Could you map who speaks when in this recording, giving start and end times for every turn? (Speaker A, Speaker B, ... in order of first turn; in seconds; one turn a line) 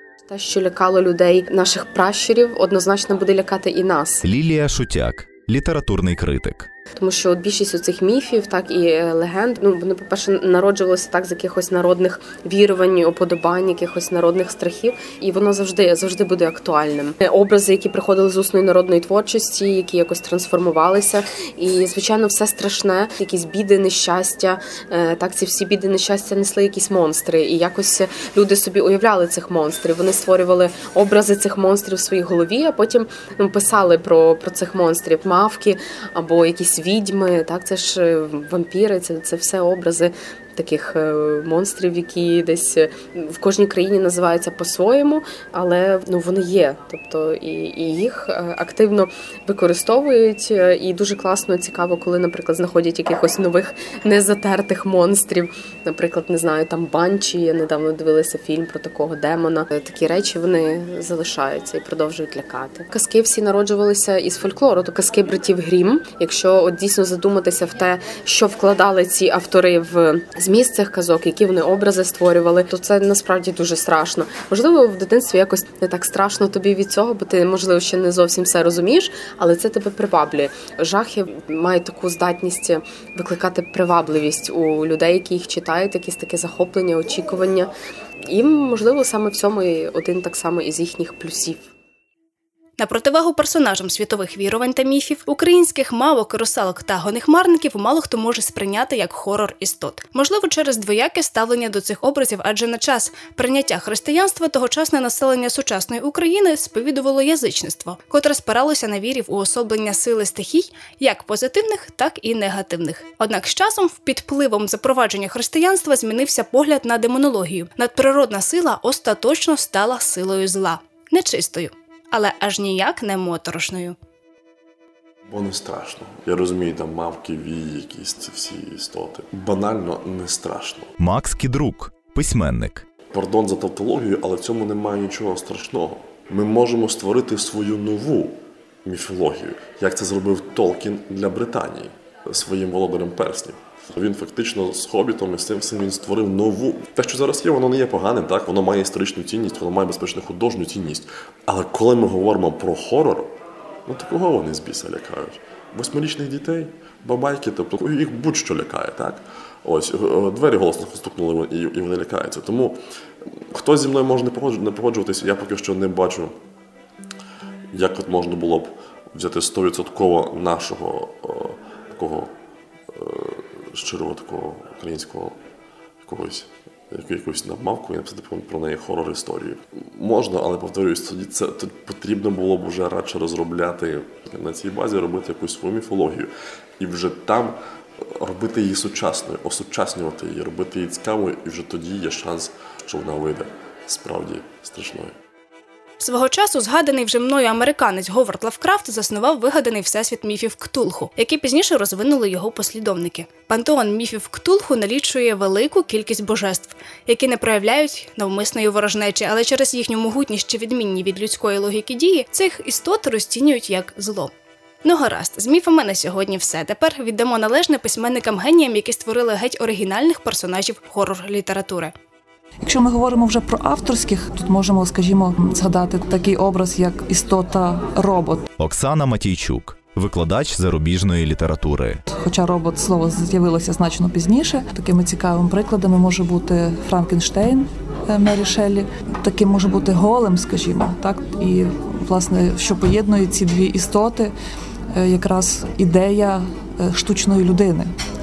Speaker A: 0.3-4.2
Speaker B: 4.2-6.7
Speaker A: 7.0-87.7
Speaker A: 88.2-91.7
Speaker C: 92.8-124.0
Speaker D: 125.3-130.9
Speaker B: 131.0-132.9
Speaker D: 133.1-153.3
Speaker D: 153.9-162.8
Speaker D: 163.5-166.3
Speaker D: 167.7-172.3
Speaker D: 172.9-175.4
Speaker D: 176.0-195.2
Speaker C: 196.0-221.9
Speaker E: 222.6-228.5
Speaker B: 228.6-232.0
Speaker E: 232.1-244.3
Speaker E: 244.9-247.9